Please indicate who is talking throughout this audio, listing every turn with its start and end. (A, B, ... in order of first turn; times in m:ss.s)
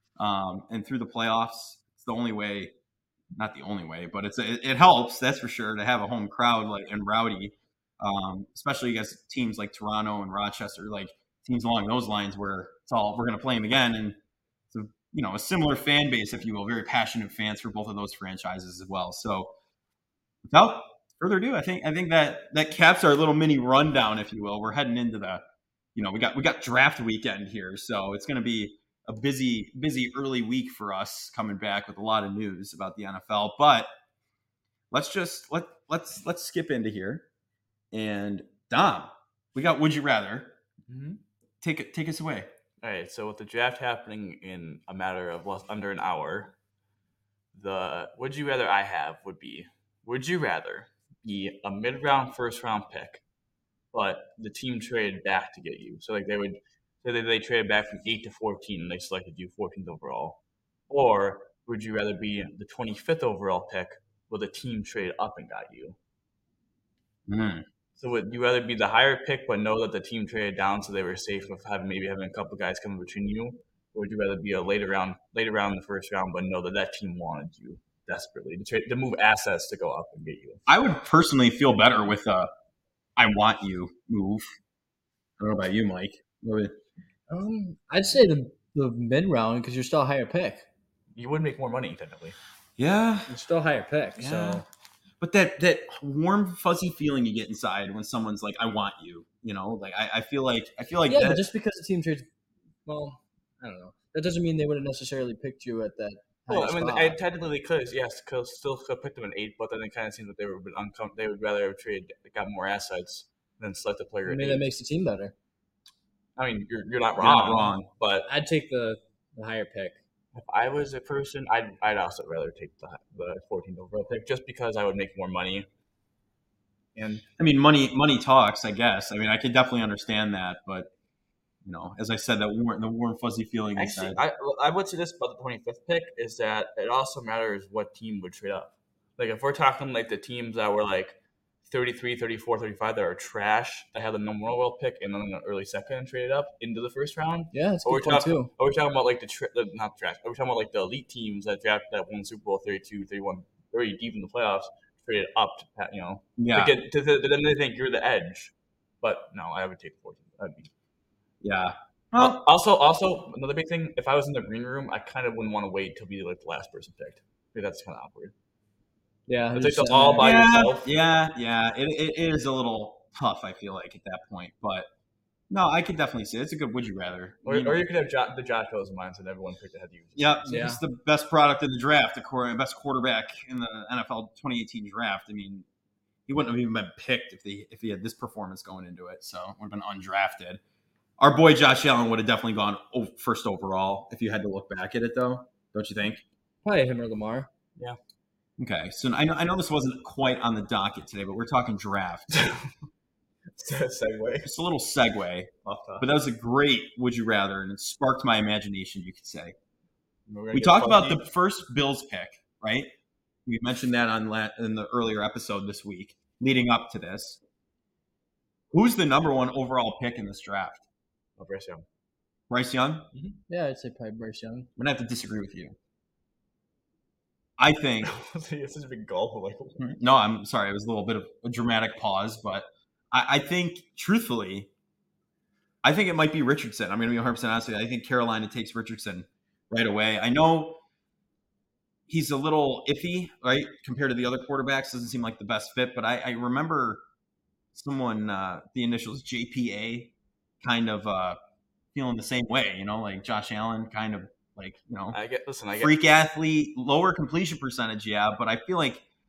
0:00.2-0:02.7 A
0:03.3-0:14.2 A
0:14.7-0:19.5 A
0:20.4-0:25.4 A
0:25.9-0:33.9 A
0:34.9-0:37.3 A
0:37.9-0:40.6 A
0:40.9-0:41.2 B
0:41.6-0:42.5 A
0:42.8-0:46.5 B
0:47.5-0:53.2 B
0:53.9-1:06.0 B
1:07.3-1:07.6 A
1:08.0-1:20.6 B
1:20.7-1:22.5 A
1:23.2-1:24.5 A
1:25.4-1:26.7 A
1:27.3-1:30.7 C
1:31.1-1:32.4 B
1:32.8-1:33.3 A
1:33.3-1:34.6 C
1:34.2-1:34.6 A
1:35.2-1:41.5 A
1:41.0-1:42.3 C
1:42.8-1:47.2 C
1:46.5-1:54.7 B
1:54.2-1:55.3 C
1:56.4-1:58.3 B
1:57.2-1:57.9 A
1:58.3-2:00.0 C
2:00.3-2:05.6 B
2:07.0-2:07.2 B
2:07.4-2:10.9 A
2:11.6-2:14.2 A
2:13.8-2:40.7 B
2:27.5-2:28.5 C
2:36.4-2:36.8 A
2:41.4-2:42.4 A
2:42.2-2:48.3 B
2:49.3-2:50.3 C
2:49.5-2:50.9 B
2:50.2-2:54.9 A
2:55.5-2:57.8 A
2:57.4-3:00.6 B
3:00.2-3:05.6 A
3:00.5-3:00.8 C
3:06.3-3:10.6 A
3:11.2-3:16.2 A
3:16.6-3:17.5 C
3:18.6-3:22.3 A
3:22.3-3:22.7 B
3:23.6-3:24.5 B
3:24.4-3:29.5 A
3:25.6-3:26.1 B
3:30.3-3:31.2 B
3:30.5-3:32.9 A
3:33.4-3:37.4 A
3:38.7-3:40.8 A
3:41.4-3:41.8 B
3:42.5-3:43.1 A
3:43.1-3:43.4 B
3:43.5-3:44.7 C
3:44.8-3:45.8 A
3:47.6-3:48.1 A
3:48.0-3:49.8 B
3:49.8-3:54.7 A
3:55.8-4:00.8 A
4:02.1-4:07.0 A
4:07.7-4:11.4 A
4:11.9-4:15.2 A
4:15.1-4:15.9 B
4:15.7-4:19.0 A